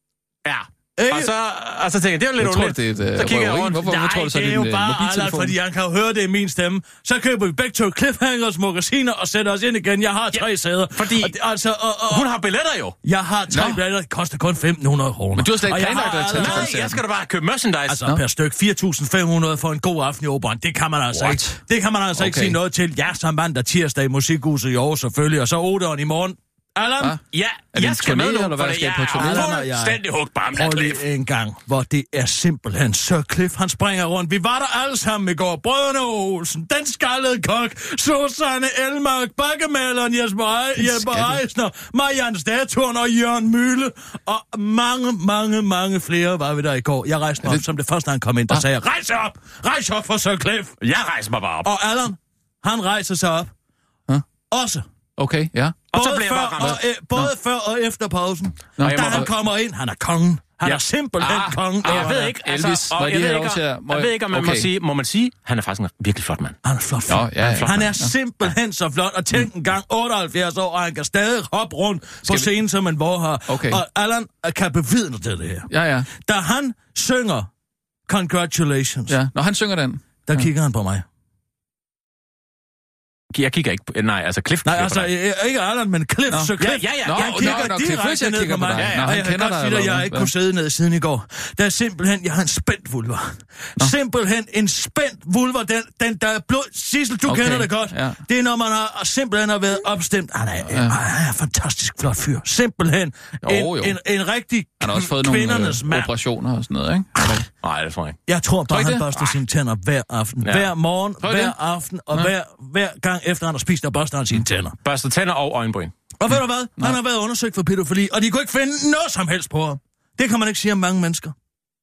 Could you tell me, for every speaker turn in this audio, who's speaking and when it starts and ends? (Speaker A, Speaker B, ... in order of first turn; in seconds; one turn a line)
Speaker A: 0.5-4.5
Speaker B: 1.0-1.3
Speaker C: 2.4-5.6
Speaker B: 4.2-12.3
Speaker A: 10.3-11.3
Speaker A: 12.1-13.0
Speaker B: 13.0-16.8
Speaker C: 13.5-13.8
Speaker C: 15.4-17.0
Speaker A: 15.9-18.1
Speaker B: 17.9-27.2
Speaker C: 21.1-21.6
Speaker C: 22.1-22.6
Speaker A: 27.3-31.0
Speaker C: 27.7-29.6
Speaker B: 28.1-28.5
Speaker B: 29.2-30.0
Speaker B: 30.5-50.8
Speaker C: 40.8-41.4
Speaker A: 50.8-51.7
Speaker B: 51.6-53.5
Speaker B: 54.5-54.9
Speaker C: 55.2-55.8
Speaker A: 55.9-56.8
Speaker B: 55.9-62.2
Speaker C: 58.8-59.3
Speaker A: 58.8-59.3
Speaker A: 60.6-66.6
Speaker C: 61.2-64.7
Speaker B: 66.7-75.7
Speaker C: 67.1-68.1
Speaker A: 67.4-67.9
Speaker C: 72.2-72.5
Speaker C: 73.5-73.8
Speaker C: 75.7-76.1
Speaker B: 76.2-77.5
Speaker B: 78.1-79.2
Speaker C: 79.1-80.5
Speaker B: 80.3-81.0
Speaker A: 83.3-85.1
Speaker B: 84.7-106.1
Speaker C: 86.3-90.3
Speaker A: 86.6-87.7
Speaker A: 88.8-89.1
Speaker C: 97.2-98.2
Speaker C: 100.7-101.0
Speaker C: 103.4-104.0
Speaker C: 104.8-107.5
Speaker A: 107.6-108.2
Speaker B: 108.3-114.8
Speaker C: 108.7-109.1
Speaker A: 110.4-110.7
Speaker C: 111.2-111.6
Speaker A: 114.8-115.9
Speaker B: 116.2-121.3